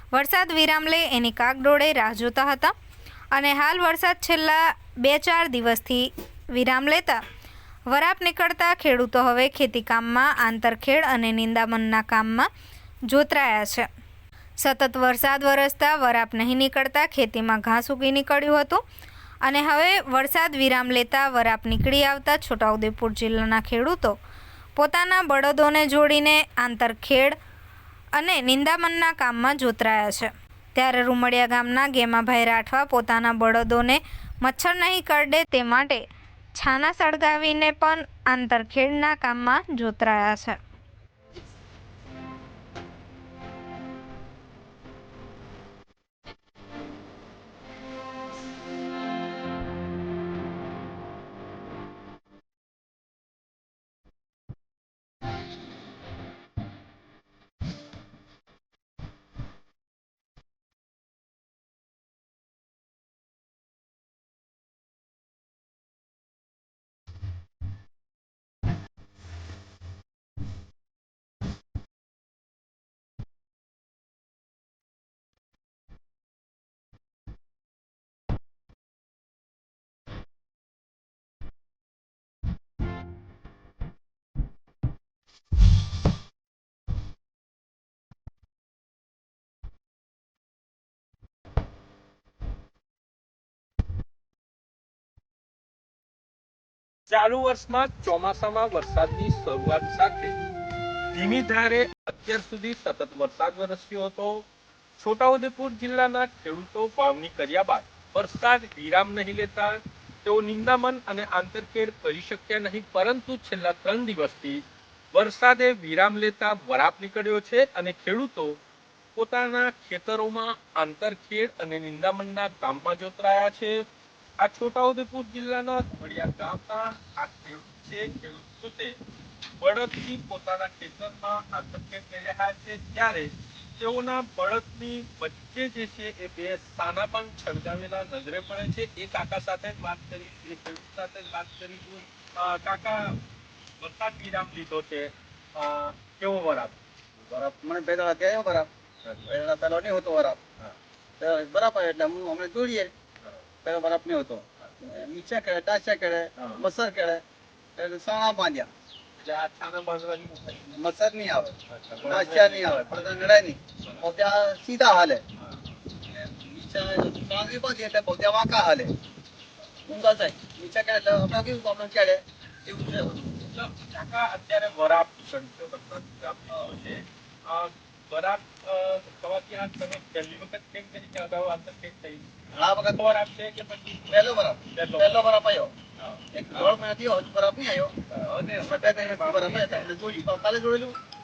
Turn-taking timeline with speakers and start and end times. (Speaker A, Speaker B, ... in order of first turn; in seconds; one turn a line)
Speaker A: 0.1-2.7
Speaker A: 3.3-7.2
Speaker A: 7.9-12.5
Speaker A: 13.1-13.9
Speaker A: 14.6-18.8
Speaker A: 19.4-24.2
Speaker A: 24.8-27.4
Speaker A: 28.2-36.0
Speaker A: 36.6-40.6
Speaker B: 97.1-100.4
Speaker B: 101.1-104.5
Speaker B: 105.0-118.6
Speaker B: 119.2-123.8
Speaker B: 124.4-129.0
Speaker B: 129.6-143.2
Speaker B: 143.8-146.8
Speaker C: 147.3-148.7
Speaker C: 149.2-150.4
Speaker C: 151.2-152.9
Speaker C: 153.6-157.2
Speaker C: 157.8-158.7
Speaker B: 159.2-160.8
Speaker C: 160.8-165.2
Speaker B: 161.7-163.2
Speaker C: 166.1-168.9
Speaker C: 169.9-173.5
Speaker B: 173.5-182.3
Speaker C: 182.5-183.0
Speaker B: 182.9-185.3
Speaker C: 184.1-185.7
Speaker C: 186.3-187.9
Speaker B: 188.2-189.9
Speaker C: 188.5-191.0